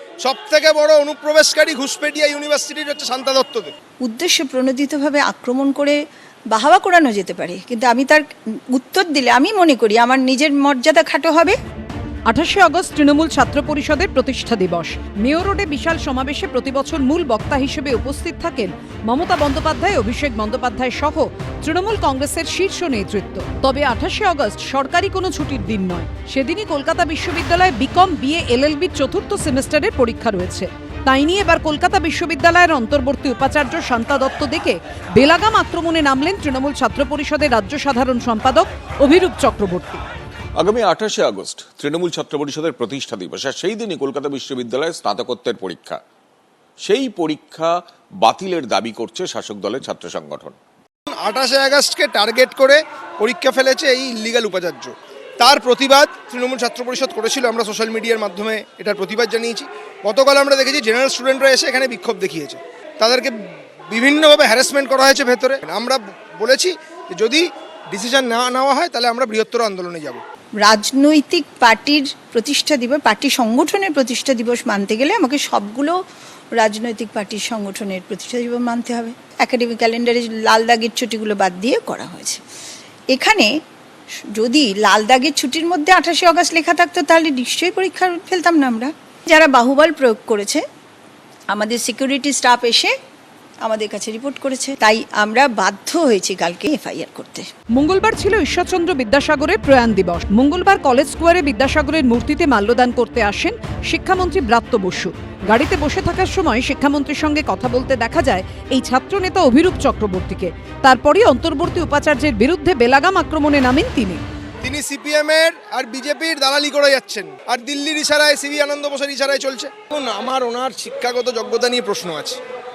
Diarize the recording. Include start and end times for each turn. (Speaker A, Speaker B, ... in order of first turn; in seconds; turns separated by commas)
Speaker A: 0.2-3.7, Speaker B: 4.0-6.0, Speaker B: 6.5-11.6, Speaker C: 12.3-40.0, Speaker D: 40.6-46.0, Speaker D: 46.8-50.5, Speaker A: 51.1-63.4, Speaker A: 63.9-70.2, Speaker B: 70.6-76.0, Speaker B: 76.5-82.4, Speaker B: 83.1-83.5, Speaker B: 84.3-90.6, Speaker B: 91.5-92.9, Speaker B: 93.6-97.5, Speaker C: 97.7-114.2, Speaker A: 114.6-122.4